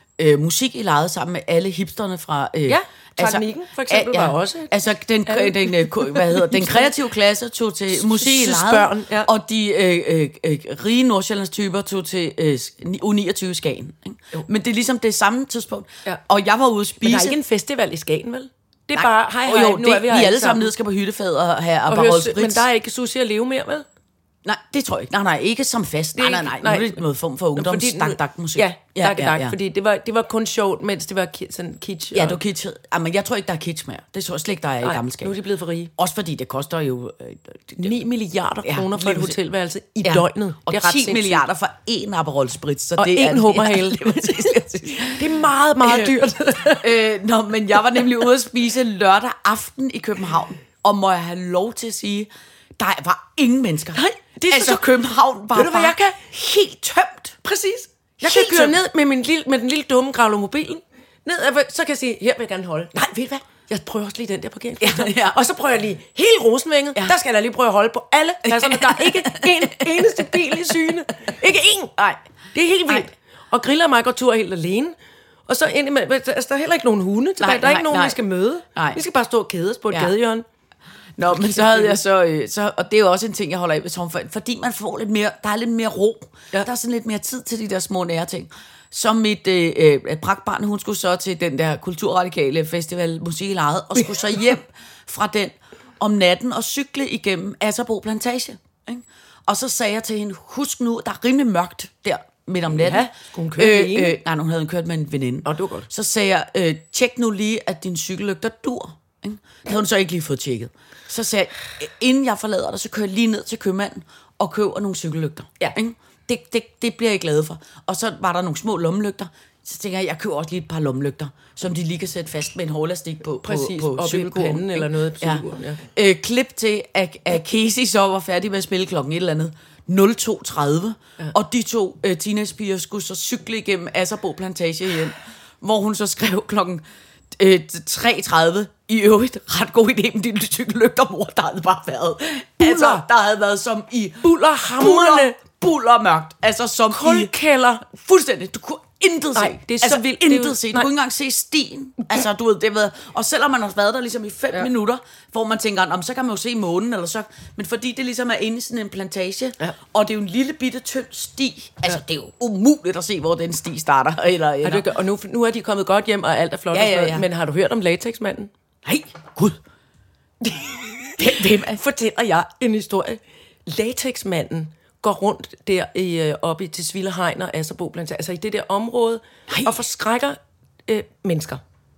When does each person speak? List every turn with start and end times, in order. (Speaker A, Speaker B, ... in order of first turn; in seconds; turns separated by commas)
Speaker A: 0.2-17.4, Speaker B: 2.6-6.9, Speaker B: 7.9-9.3, Speaker B: 17.0-20.6, Speaker A: 18.9-22.6, Speaker B: 21.9-23.8, Speaker A: 24.4-29.6, Speaker B: 26.1-27.0, Speaker B: 27.5-32.4, Speaker A: 32.1-35.3, Speaker B: 34.8-35.9, Speaker A: 36.0-38.0, Speaker B: 37.8-41.4, Speaker A: 38.6-39.4, Speaker A: 40.0-45.3, Speaker B: 43.0-46.9, Speaker A: 45.8-46.1, Speaker A: 46.7-57.4, Speaker B: 53.9-54.9, Speaker B: 55.5-56.2, Speaker B: 57.4-72.0, Speaker A: 58.2-58.8, Speaker A: 64.8-65.4, Speaker A: 68.4-70.5, Speaker B: 72.5-74.9, Speaker B: 75.5-80.4, Speaker A: 77.4-78.2, Speaker A: 78.7-79.0, Speaker A: 81.2-136.8, Speaker B: 81.3-82.0, Speaker B: 102.7-104.2, Speaker B: 105.4-105.9, Speaker B: 123.4-125.8, Speaker A: 137.3-147.3, Speaker B: 142.6-143.0, Speaker B: 144.2-145.4, Speaker B: 146.9-147.8, Speaker A: 147.8-164.8, Speaker B: 149.3-150.9, Speaker B: 164.6-168.5, Speaker A: 166.7-167.2, Speaker A: 168.8-169.6, Speaker B: 170.4-181.6, Speaker A: 171.2-171.8